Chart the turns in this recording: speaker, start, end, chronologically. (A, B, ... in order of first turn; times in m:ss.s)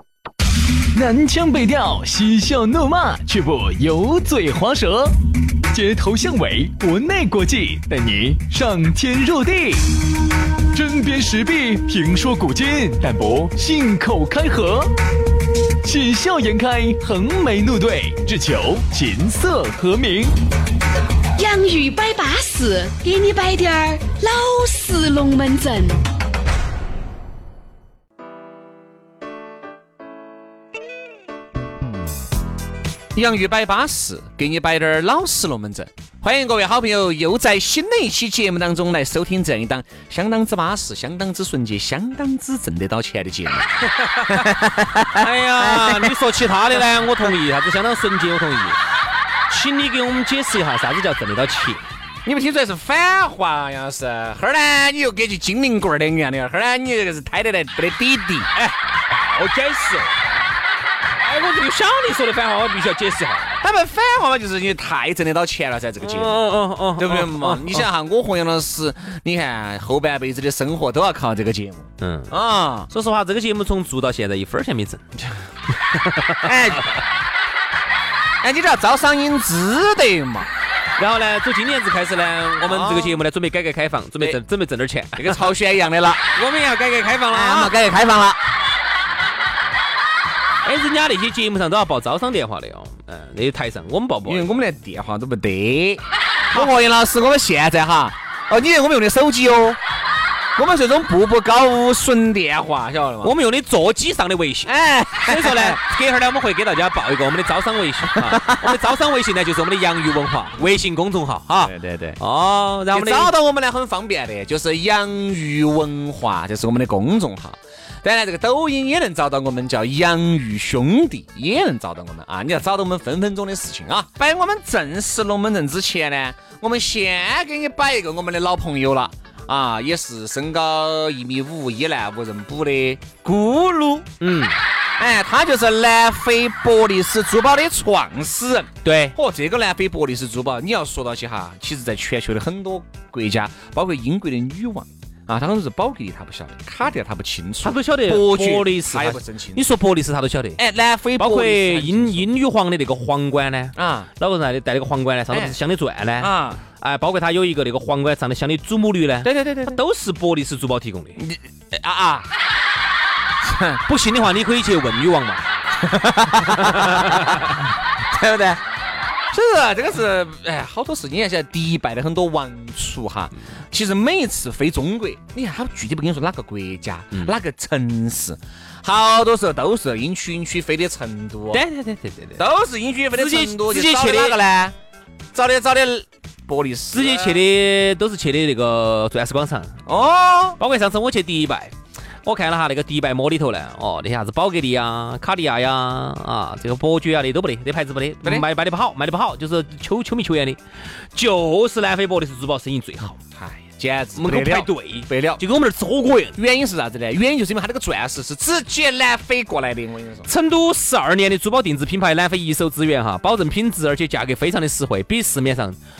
0:00.9-0:05.2 A
0:05.7-0:10.0 A
0:10.7-0:14.9 A
0:15.8-0:20.3 A
0:21.4-0:26.0 B
0:33.1-0:46.1 C
0:44.0-0:44.5 D
0:45.1-0:48.8 D
0:49.5-0:51.8 D
0:52.2-0:58.5 C
0:58.6-1:00.2 D
1:01.2-1:03.6 D
1:03.6-1:06.5 C
1:06.0-1:07.8 D
1:07.0-1:12.9 C
1:12.0-1:12.3 D
1:12.9-1:15.0 D
1:15.9-1:16.6 D
1:16.4-1:17.0 C
1:18.4-1:20.5 C
1:21.0-1:25.5 D
1:22.6-1:23.2 C
1:25.2-1:26.3 C
1:26.4-1:27.7 D
1:27.3-1:28.4 C
1:30.6-1:34.5 D
1:34.3-1:39.8 C
1:40.6-1:43.3 C
1:43.2-1:53.3 D
1:44.6-1:45.8 C
1:48.1-1:48.8 C
1:51.6-1:52.2 C
1:52.9-2:14.1 C
2:14.2-2:14.6 D
2:15.0-2:29.6 C
2:18.8-2:19.2 D
2:27.6-2:30.6 D
2:30.6-2:32.3 C
2:31.2-2:41.2 D
2:33.8-2:34.1 C
2:35.3-2:35.6 C
2:36.2-2:36.6 C
2:39.2-2:39.8 C
2:41.2-2:42.3 C
2:43.4-2:43.8 C
2:43.9-2:45.4 D
2:45.8-2:48.6 C
2:46.5-2:47.6 D
2:49.3-3:01.6 C
3:01.5-3:02.4 D
3:02.4-3:04.8 C
3:03.1-3:04.4 D
3:05.3-3:07.4 C
3:06.9-3:09.8 D
3:09.9-3:10.6 C
3:10.6-3:20.6 D
3:21.2-3:23.2 D
3:23.4-3:25.4 C
3:24.2-3:26.4 D
3:26.4-3:30.3 C
3:30.3-3:35.8 D